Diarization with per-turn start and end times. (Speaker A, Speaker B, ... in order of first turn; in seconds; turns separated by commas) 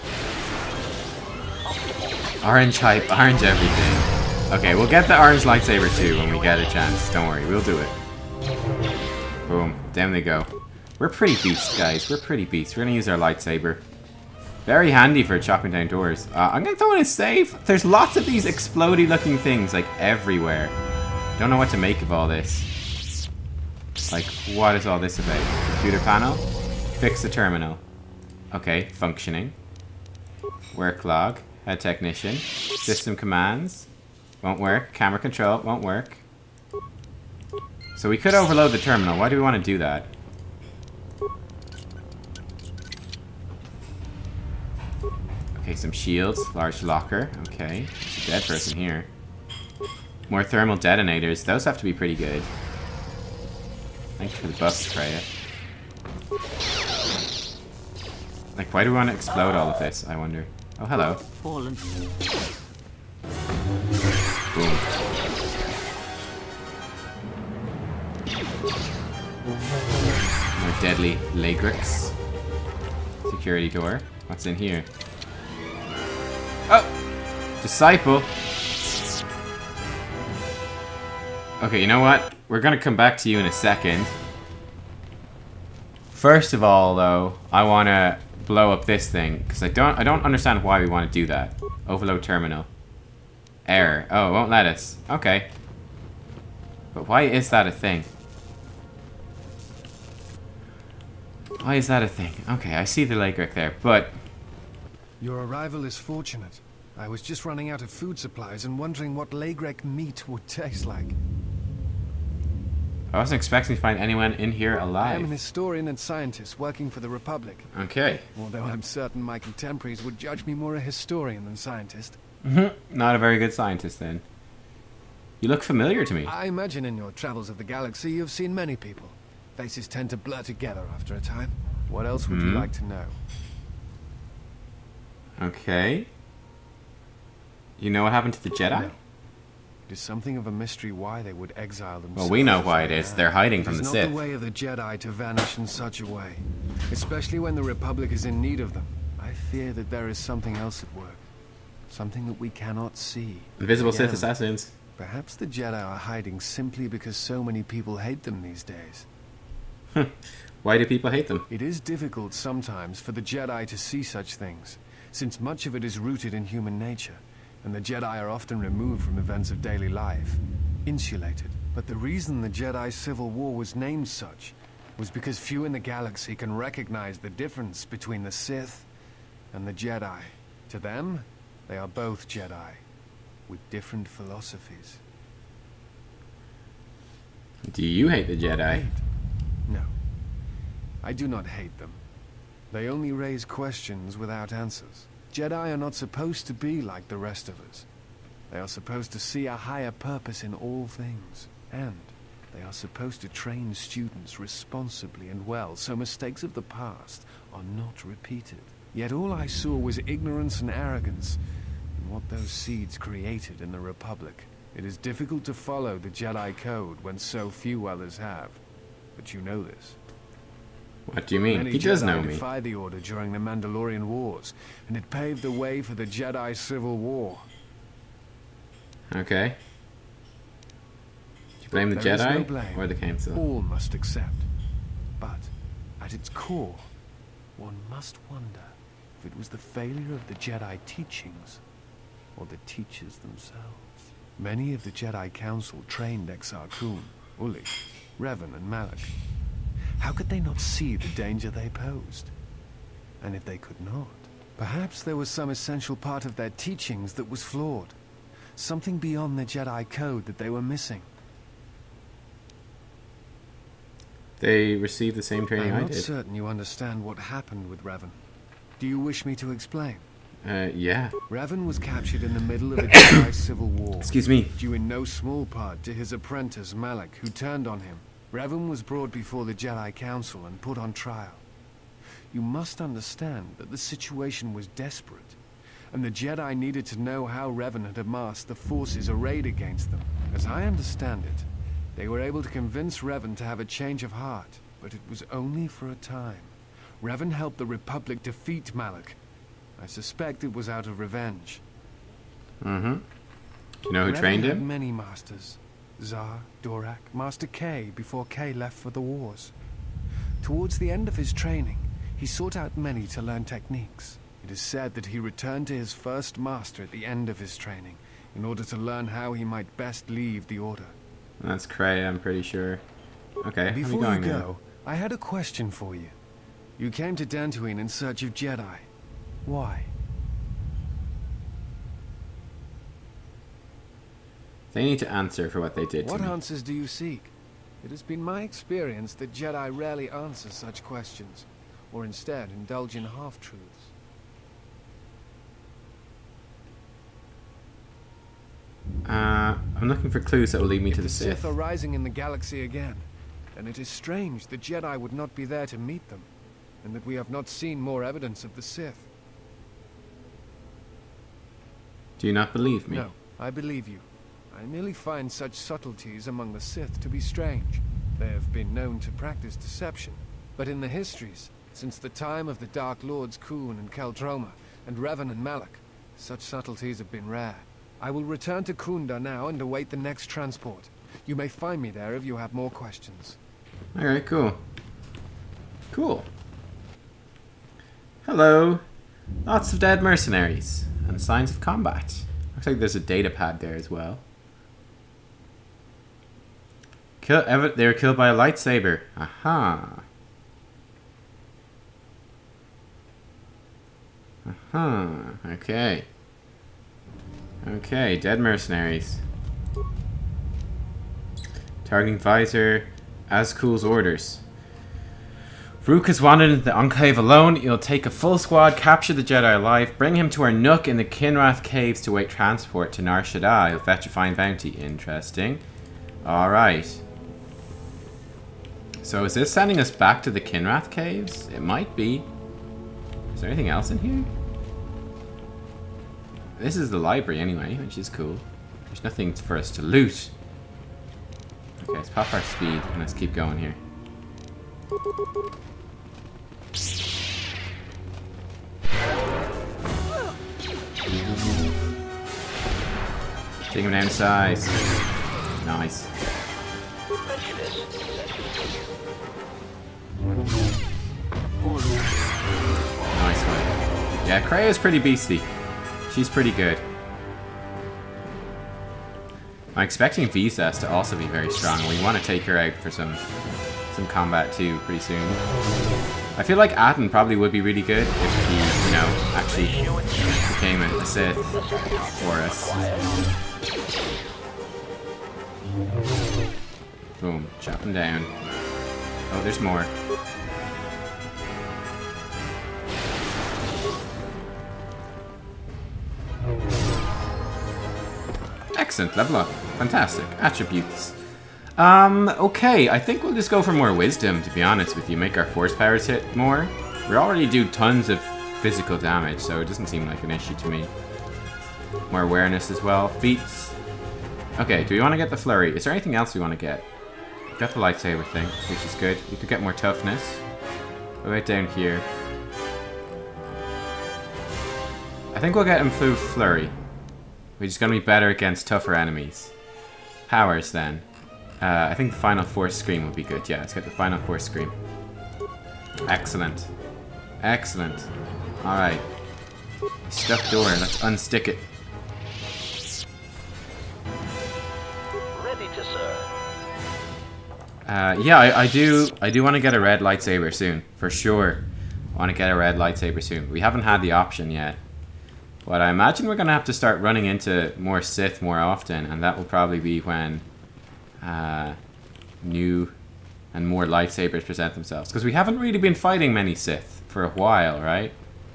Speaker A: 1.6-3.9, Speaker B: 2.4-8.0, Speaker A: 5.9-6.9, Speaker B: 9.4-13.8, Speaker B: 14.6-20.7, Speaker B: 21.4-22.7, Speaker B: 24.1-26.4, Speaker B: 26.9-27.8, Speaker B: 28.5-29.5, Speaker B: 30.7-33.9, Speaker B: 34.4-36.2, Speaker B: 37.9-40.1, Speaker B: 45.5-49.1, Speaker B: 50.3-52.5, Speaker B: 54.2-55.3, Speaker B: 58.5-61.7, Speaker B: 64.5-64.9, Speaker B: 70.5-72.1, Speaker B: 73.2-74.9, Speaker B: 76.7-76.9, Speaker B: 77.6-78.3, Speaker B: 81.6-84.1, Speaker B: 86.1-92.7, Speaker B: 93.6-95.5, Speaker B: 96.9-98.1, Speaker B: 101.6-104.2, Speaker C: 105.2-111.1, Speaker B: 113.1-115.3, Speaker C: 115.0-117.7, Speaker B: 117.7-118.2, Speaker C: 118.3-122.2, Speaker B: 122.4-124.2, Speaker B: 125.4-126.3, Speaker C: 126.2-133.2, Speaker B: 132.3-132.7, Speaker B: 135.4-136.1, Speaker B: 137.8-138.9, Speaker C: 138.6-139.0, Speaker C: 139.9-151.2, Speaker B: 142.2-144.2, Speaker C: 151.9-154.3, Speaker B: 153.6-154.7, Speaker C: 155.0-159.1, Speaker B: 159.9-161.4, Speaker C: 161.5-178.9, Speaker C: 179.5-182.8, Speaker C: 183.5-185.0, Speaker B: 187.6-188.9, Speaker C: 188.7-189.0, Speaker C: 191.0-192.0, Speaker C: 192.7-197.8, Speaker C: 198.5-211.4, Speaker C: 212.0-218.6, Speaker C: 219.2-220.0, Speaker B: 221.1-222.4, Speaker C: 221.4-227.5, Speaker B: 229.1-229.6, Speaker B: 231.6-233.4, Speaker C: 231.9-234.5, Speaker C: 235.2-236.9, Speaker C: 237.6-241.6, Speaker C: 242.3-249.1, Speaker C: 250.0-252.3, Speaker C: 253.2-257.9, Speaker C: 258.6-261.1, Speaker B: 264.4-266.1, Speaker C: 265.6-268.2, Speaker C: 268.8-270.0, Speaker B: 270.4-271.1, Speaker C: 271.3-281.4, Speaker B: 272.9-273.2, Speaker B: 274.0-274.5, Speaker C: 282.3-285.4, Speaker C: 285.9-299.2, Speaker C: 299.8-301.6, Speaker B: 302.6-303.0, Speaker B: 303.9-304.6, Speaker C: 304.0-309.5, Speaker C: 310.4-320.9, Speaker B: 321.4-322.8, Speaker B: 323.4-324.4, Speaker C: 323.7-326.1, Speaker C: 326.8-328.9, Speaker C: 329.4-329.9, Speaker B: 334.7-336.3, Speaker C: 336.0-343.9, Speaker B: 349.0-351.5, Speaker C: 350.9-356.3, Speaker C: 356.8-359.1, Speaker B: 362.2-363.0, Speaker C: 362.9-383.4, Speaker B: 383.9-384.6, Speaker B: 385.9-386.3, Speaker B: 388.2-388.8, Speaker B: 389.4-394.2, Speaker B: 397.2-400.0, Speaker B: 404.4-406.1, Speaker B: 407.6-409.2, Speaker B: 411.8-414.4, Speaker B: 415.8-425.6, Speaker B: 426.2-427.0, Speaker B: 429.0-432.3, Speaker B: 433.3-434.3, Speaker B: 436.6-440.3, Speaker B: 441.8-443.8, Speaker B: 453.7-454.8, Speaker B: 455.6-456.1, Speaker A: 457.2-458.7, Speaker A: 461.6-462.0, Speaker B: 463.1-463.7, Speaker B: 464.2-465.5, Speaker B: 466.1-466.8, Speaker B: 469.7-473.2, Speaker B: 473.9-475.4, Speaker B: 476.3-479.8, Speaker A: 478.4-480.8, Speaker B: 480.5-481.5, Speaker A: 481.5-483.3, Speaker B: 482.1-482.9, Speaker B: 487.2-488.3, Speaker B: 489.3-489.9, Speaker B: 498.7-501.2, Speaker B: 501.8-510.9, Speaker B: 512.1-513.8, Speaker B: 514.6-516.9, Speaker B: 517.5-520.4, Speaker B: 521.2-522.0, Speaker B: 525.3-526.7, Speaker B: 527.6-529.5, Speaker B: 530.3-531.0, Speaker B: 531.6-534.7, Speaker B: 536.0-536.7, Speaker B: 537.4-538.1, Speaker B: 538.6-539.0, Speaker B: 540.1-541.6, Speaker A: 545.3-546.3, Speaker B: 547.8-554.8, Speaker B: 555.6-560.4, Speaker B: 561.2-561.8, Speaker B: 562.4-562.9, Speaker B: 563.5-568.1